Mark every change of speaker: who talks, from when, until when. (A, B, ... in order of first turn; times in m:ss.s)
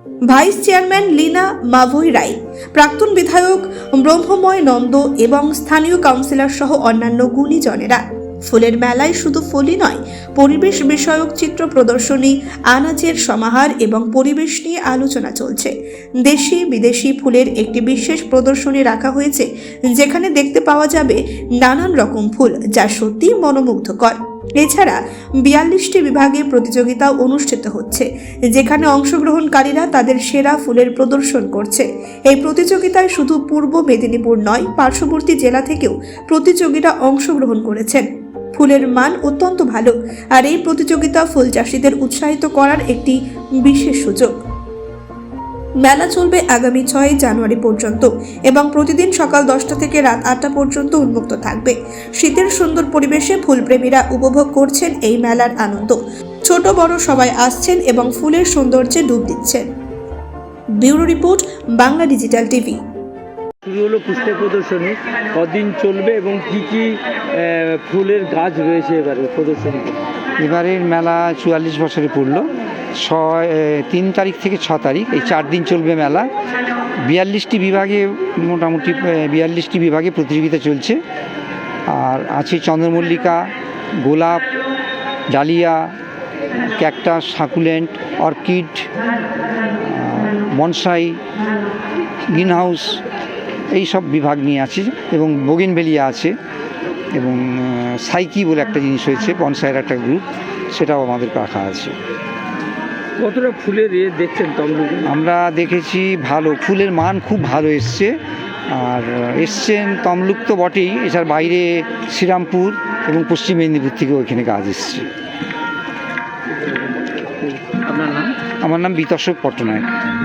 0:00.3-0:44.3 A
0:45.8-0:59.7 A
1:00.8-1:02.8 A
1:03.6-1:10.0 B
1:10.4-1:16.3 C
1:17.0-1:21.0 C
1:21.9-1:23.4 C
1:24.0-1:24.4 C
1:25.3-1:25.9 C
1:26.6-1:28.9 C
1:29.8-1:31.2 C
1:32.3-1:33.0 C
1:33.7-1:36.3 C
1:37.1-1:41.9 C
1:43.2-1:45.1 B
1:45.0-1:48.1 C
1:48.7-1:55.1 C
1:57.4-1:58.3 B
1:58.6-1:59.9 C